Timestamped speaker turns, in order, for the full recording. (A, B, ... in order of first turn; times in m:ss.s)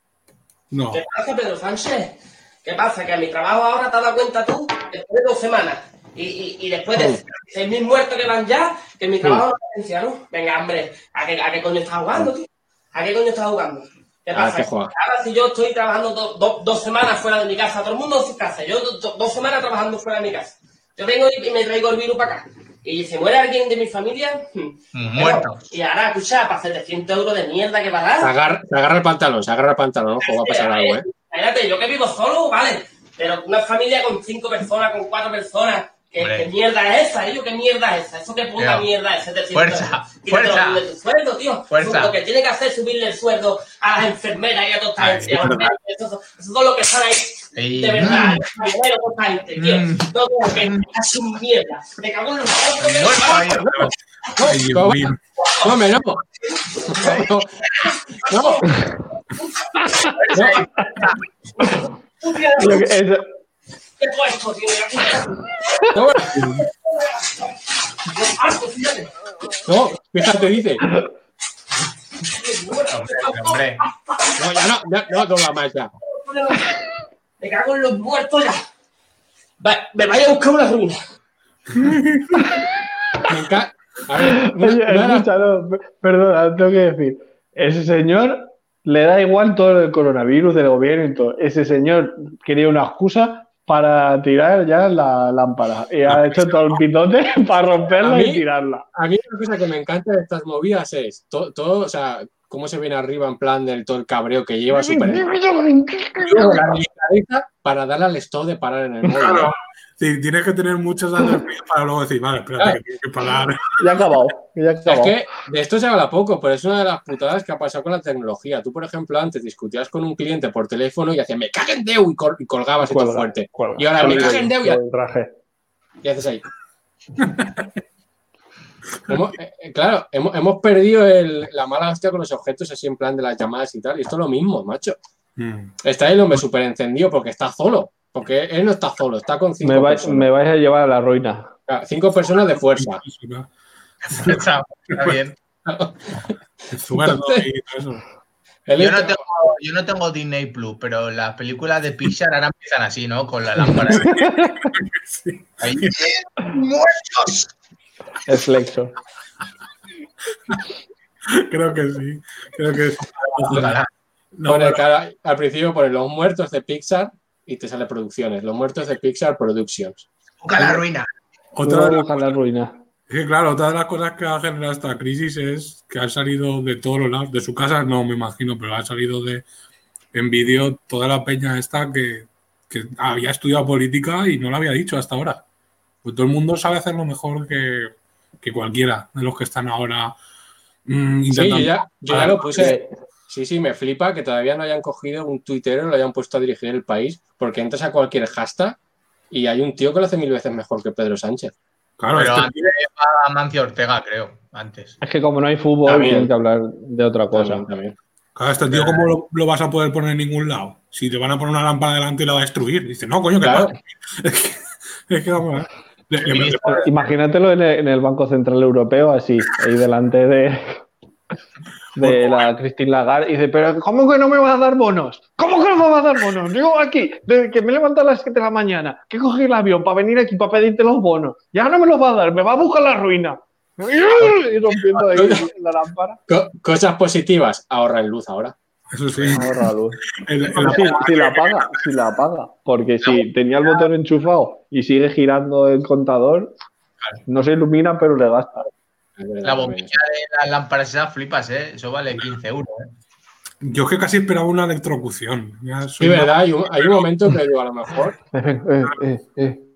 0:00.7-0:01.0 A
0:00.9-0:28.3 B
0:06.9-0:07.2 C
0:14.4-0:14.9 C
0:24.9-0:25.6 D
0:28.2-0:31.1 C
0:30.2-0:53.6 B
0:36.2-0:36.5 D
0:38.6-0:38.9 D
0:39.5-0:40.8 D
0:41.7-0:42.2 D
0:45.0-0:45.8 D
0:45.3-0:45.6 A
0:47.6-0:48.5 D
0:49.6-0:50.9 D
0:52.8-0:53.9 D
0:54.4-0:55.1 C
0:54.4-0:55.2 A
0:55.6-0:56.2 C
0:56.9-0:57.5 C
0:58.3-0:58.8 B
0:58.3-0:58.6 C
0:59.4-1:00.6 B
1:00.2-1:01.1 D
1:00.3-1:00.6 C
1:01.6-1:02.9 B
1:02.6-1:03.2 E
1:04.0-1:05.4 B
1:05.9-1:06.4 C
1:06.3-1:06.7 A
1:06.6-1:07.6 B
1:08.1-1:09.1 B
1:09.7-1:10.8 C
1:12.2-1:13.6 B
1:12.9-1:13.8 D
1:14.4-1:15.9 C
1:16.1-1:16.8 B
1:17.4-1:18.6 B
1:19.6-1:21.0 B
1:21.8-1:22.3 A
1:23.3-1:25.3 C
1:24.4-1:38.8 E
1:36.1-1:36.8 A
1:38.0-1:45.3 C
1:44.7-1:46.6 E
1:46.3-1:49.5 C
1:49.2-1:53.8 A
1:53.8-1:55.1 E
1:54.9-2:04.8 C
2:02.8-2:05.3 E
2:06.0-2:06.4 C
2:09.1-2:15.0 C
2:15.4-2:15.8 A
2:15.8-2:20.3 C
2:19.6-2:21.5 E
2:21.7-2:23.0 C
2:22.7-2:23.5 A
2:24.1-2:25.4 D
2:24.1-2:24.4 A
2:25.7-2:26.3 C
2:26.7-2:28.0 A
2:26.9-2:27.5 C
2:28.7-2:29.2 C
2:28.8-2:34.2 D
2:33.9-2:36.0 A
2:35.6-2:36.1 D
2:38.3-2:38.9 E
2:41.3-2:43.8 A
2:43.0-2:43.9 D
2:44.4-2:44.8 A
2:44.5-2:50.1 C
2:50.4-2:51.1 D
2:51.6-2:52.4 A
2:51.6-2:52.7 E
2:53.1-2:59.5 A
3:00.1-3:05.4 A
3:06.0-3:10.2 A
3:10.9-3:12.8 A
3:11.3-3:18.8 C
3:12.1-3:12.9 E
3:19.3-3:21.5 C
3:22.0-3:22.6 A
3:22.1-3:25.0 D
3:25.0-3:27.6 E
3:25.9-3:26.3 C
3:27.3-3:28.0 C
3:28.4-3:36.9 A
3:28.7-3:29.0 D
3:33.4-3:33.7 C
3:36.3-3:36.9 D
3:36.8-3:40.8 E
3:42.0-3:42.5 A
3:42.0-3:56.2 E
3:54.2-3:55.2 D
3:56.3-3:58.5 C
3:58.9-3:59.5 A
3:59.1-3:59.4 D
3:59.3-4:00.0 E
4:00.2-4:01.7 A
4:00.6-4:06.5 E
4:07.3-4:08.7 E
4:09.2-4:09.9 C
4:09.4-4:12.9 D
4:13.6-4:17.0 A
4:16.0-4:18.2 C
4:18.3-4:19.7 E